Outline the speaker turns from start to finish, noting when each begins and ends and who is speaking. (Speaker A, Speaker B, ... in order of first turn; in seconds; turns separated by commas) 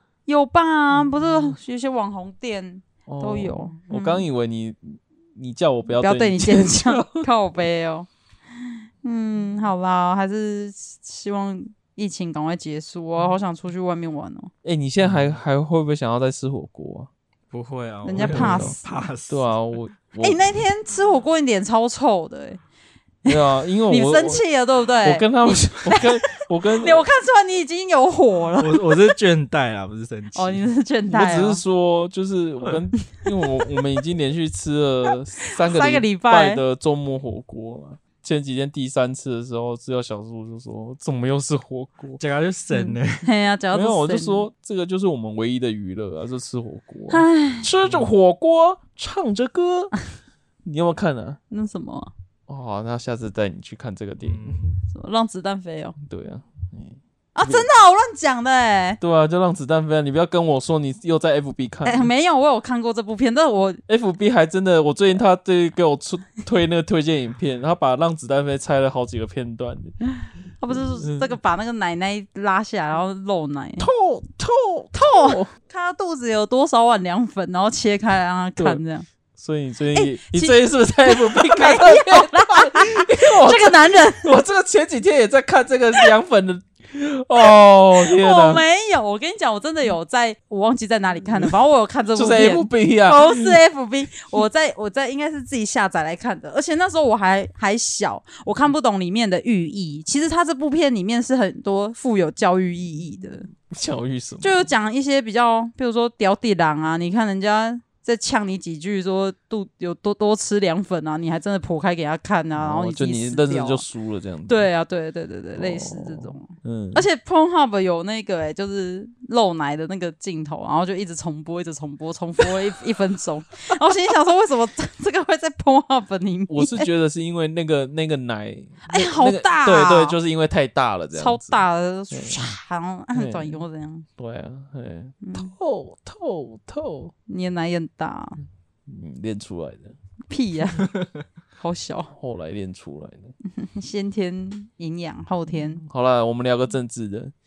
Speaker A: 0.2-4.2, Speaker B: 0.9-1.6, Speaker B: 3.0-7.3, Speaker A: 5.9-8.1, Speaker A: 9.0-14.5, Speaker B: 14.6-17.1, Speaker C: 15.0-15.4, Speaker C: 17.5-19.5, Speaker A: 18.0-19.0, Speaker B: 18.1-20.4, Speaker A: 20.2-22.6, Speaker B: 23.2-24.4, Speaker A: 23.2-29.0, Speaker B: 25.0-27.1, Speaker C: 28.6-30.7, Speaker A: 30.3-31.6, Speaker B: 31.1-42.2, Speaker A: 35.5-36.6, Speaker C: 42.2-43.3, Speaker A: 42.7-44.5, Speaker B: 43.7-49.9, Speaker A: 47.1-47.7, Speaker C: 47.8-48.1, Speaker B: 50.6-51.4, Speaker A: 51.5-52.1, Speaker B: 52.5-54.7, Speaker C: 54.2-54.7, Speaker A: 54.9-56.0, Speaker B: 56.0-57.7, Speaker A: 57.3-59.0, Speaker B: 59.0-62.1, Speaker A: 61.8-63.8, Speaker B: 63.9-69.9, Speaker A: 70.6-73.9, Speaker B: 70.7-71.3, Speaker B: 73.8-75.5, Speaker A: 74.9-79.1, Speaker B: 79.4-88.6, Speaker A: 79.9-84.3, Speaker A: 88.0-103.5, Speaker B: 92.1-93.6, Speaker B: 103.7-104.7, Speaker A: 104.4-113.8, Speaker B: 112.5-114.7, Speaker A: 114.5-126.9, Speaker B: 115.5-117.0, Speaker B: 126.5-131.6, Speaker A: 128.9-130.2, Speaker A: 131.1-134.1, Speaker B: 132.1-132.5, Speaker B: 133.1-133.6, Speaker B: 134.2-137.1, Speaker A: 135.2-135.5, Speaker A: 137.3-138.4, Speaker B: 138.9-139.9, Speaker A: 140.3-140.9, Speaker A: 141.6-142.1, Speaker B: 142.1-143.3, Speaker A: 143.4-145.8, Speaker B: 145.8-147.3